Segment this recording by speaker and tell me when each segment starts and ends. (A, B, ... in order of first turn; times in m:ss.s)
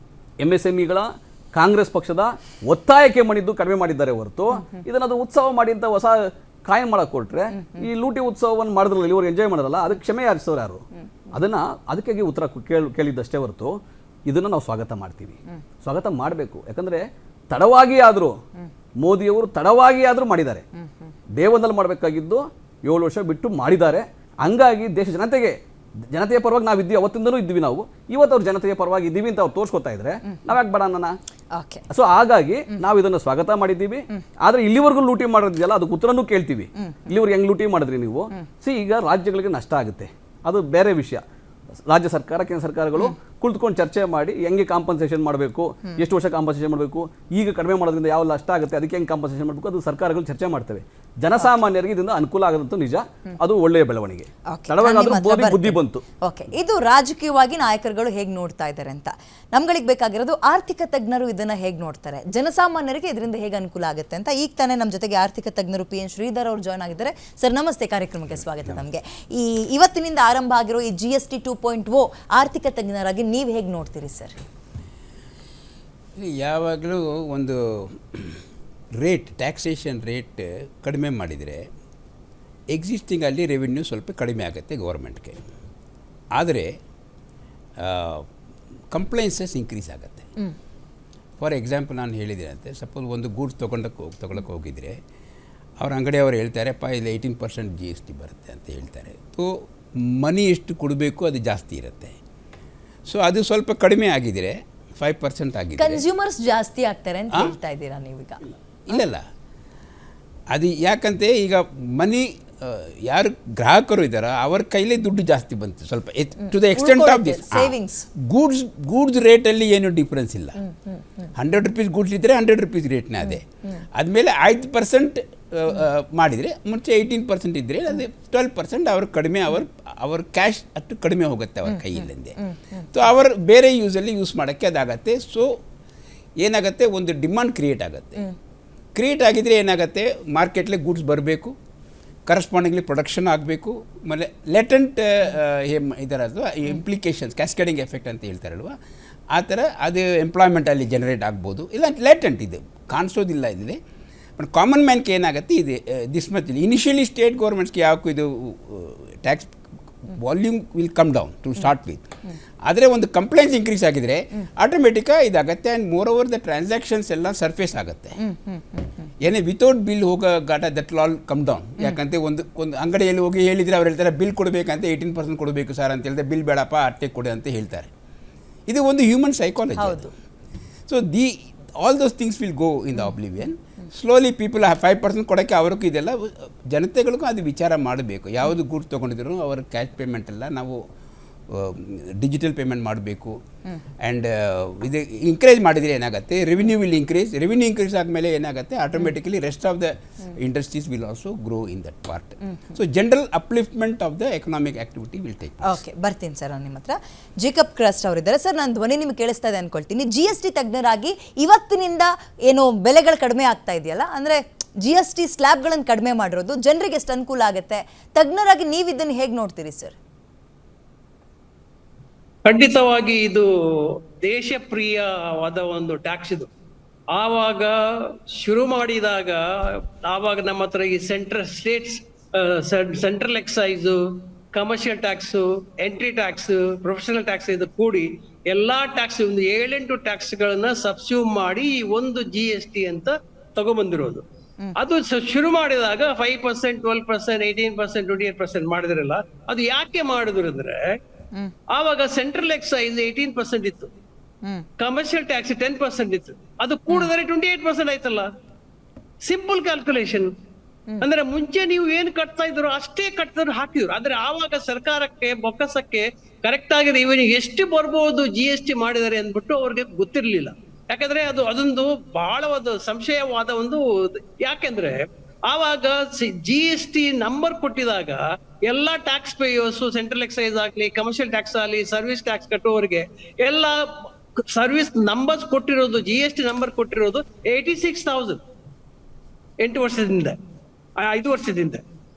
0:00.4-0:18.4 A
0:19.0-0:20.6 A
0:21.4-0:25.6 A
0:26.1-0:31.2 A
0:31.5-0:31.8 B
0:31.9-0:41.2 A
0:41.9-0:56.0 A
0:54.5-1:14.4 B
1:16.2-1:18.4 C
1:19.0-1:21.6 C
1:22.7-1:25.4 C
1:26.3-1:26.7 C
1:27.8-1:28.3 C
1:28.9-1:30.3 C
1:31.4-1:35.0 C
1:35.8-1:39.5 C
1:40.1-1:42.1 C
1:43.1-1:46.0 C
1:45.8-1:48.4 B
1:48.9-1:49.2 C
1:50.5-1:57.8 C
1:56.7-1:58.1 B
1:58.3-2:00.6 C
2:01.4-2:12.4 C
2:12.9-2:15.5 C
2:16.4-2:18.3 C
2:19.0-2:21.5 C
2:22.3-2:28.7 C
2:29.3-2:33.8 C
2:34.4-2:39.6 C
2:40.1-2:42.1 C
2:42.6-2:48.2 C
2:49.2-2:57.9 C
2:58.7-3:00.1 C
2:59.8-3:00.1 B
3:00.9-3:10.8 C
3:11.5-3:13.4 C
3:14.0-3:25.8 C
3:25.6-3:40.0 B
3:42.4-3:46.5 D
3:47.1-3:54.0 D
3:54.5-4:04.2 D
4:04.8-4:10.9 D
4:11.7-4:13.9 D
4:14.8-4:18.3 D
4:19.2-4:20.3 D
4:21.0-4:43.9 D
4:44.5-4:48.4 D
4:49.6-4:50.4 D
4:51.0-4:51.8 D